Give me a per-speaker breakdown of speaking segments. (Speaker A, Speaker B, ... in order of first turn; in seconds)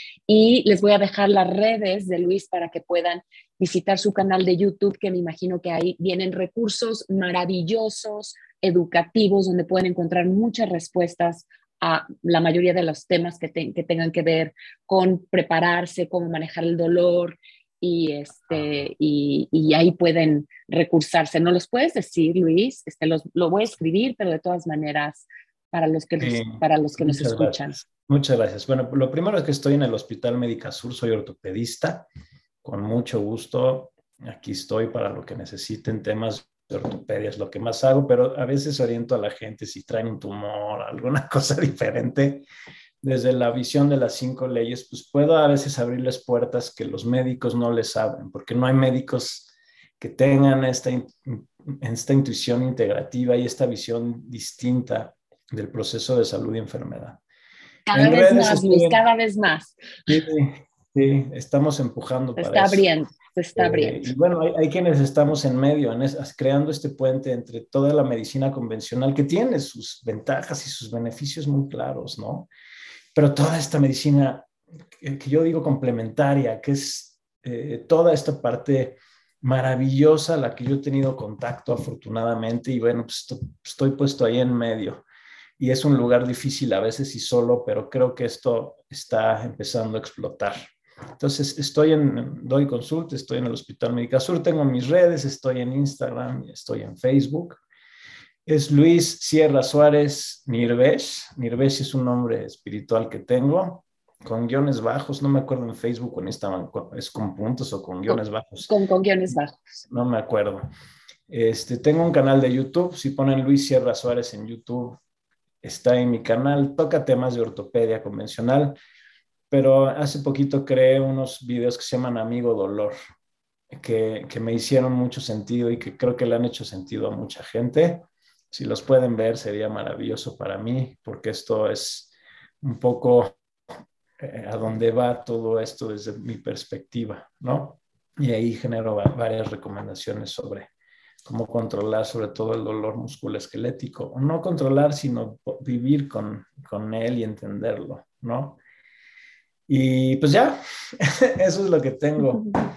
Speaker A: 0.3-27.8, 57.9-59.8, 62.4-64.1, 108.1-109.8
Speaker B: 18.5-18.9, 26.2-32.1, 32.6-42.5, 43.0-57.2, 57.9-59.0, 60.1-62.9, 63.6-72.5, 73.2-85.1, 85.6-97.6, 98.5-108.7, 109.9-110.6, 111.3-115.0, 115.6-118.8, 119.5-123.0, 123.7-133.4, 134.2-140.7, 141.2-148.6, 149.7-152.5